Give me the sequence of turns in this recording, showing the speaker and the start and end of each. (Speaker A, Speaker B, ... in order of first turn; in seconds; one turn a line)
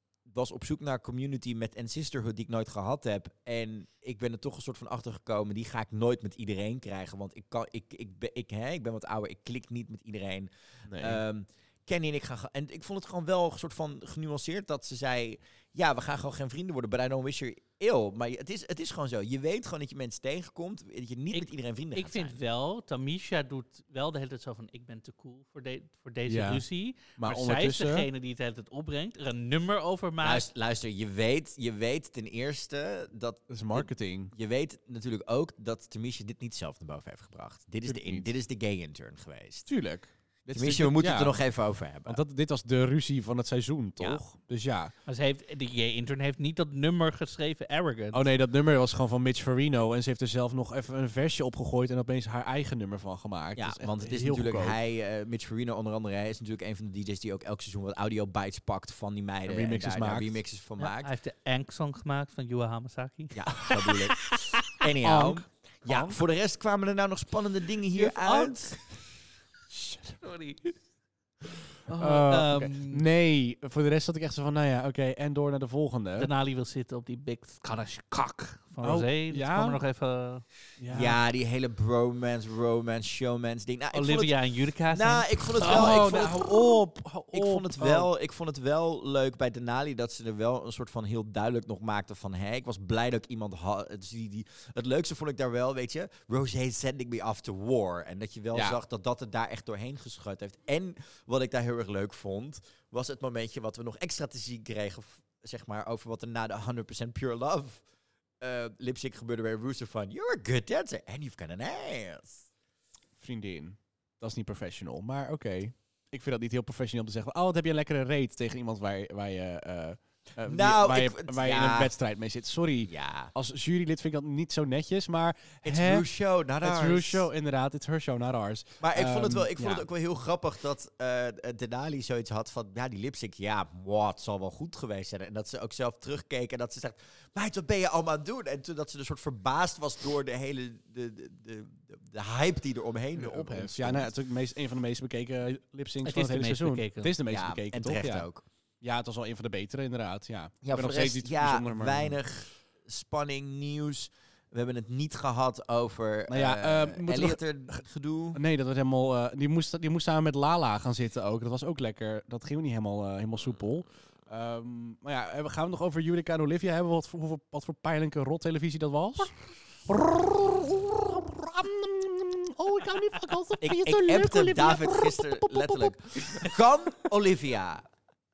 Speaker A: 0.3-22.4
Speaker B: 10.8-11.2
Speaker C: 21.3-30.5
Speaker B: 26.3-26.6
Speaker B: 27.1-28.1
Speaker A: 30.2-39.7
Speaker B: 33.5-34.3
Speaker B: 37.9-38.3
Speaker B: 39.7-41.4
Speaker A: 40.5-42.2
Speaker B: 42.0-44.9
Speaker C: 45.0-48.3
Speaker B: 48.1-54.8
Speaker A: 53.5-61.1
Speaker B: 59.5-60.4
Speaker C: 60.8-63.5
Speaker A: 63.3-68.8
Speaker B: 63.7-66.2
Speaker C: 67.9-68.8
Speaker C: 70.2-70.7
Speaker C: 71.9-73.0
Speaker B: 71.9-76.3
Speaker C: 76.2-80.4
Speaker B: 78.8-79.8
Speaker B: 80.8-81.2
Speaker A: 80.9-84.3
Speaker C: 83.9-86.2
Speaker A: 84.9-86.8
Speaker B: 85.6-88.1
Speaker A: 87.3-107.8
Speaker B: 98.5-98.8
Speaker A: 108.4-112.5
Speaker B: 113.2-126.0
Speaker A: 120.4-121.9
Speaker A: 122.8-123.3
Speaker A: 125.6-127.3
Speaker B: 126.6-129.8
Speaker A: 128.8-144.1
Speaker B: 143.1-148.3
Speaker C: 146.0-147.1
Speaker A: 147.3-148.4
Speaker B: 148.8-152.2
Speaker A: 150.6-158.4
Speaker B: 156.3-157.8
Speaker B: 158.3-169.3
Speaker B: 169.8-176.5
Speaker A: 173.6-177.9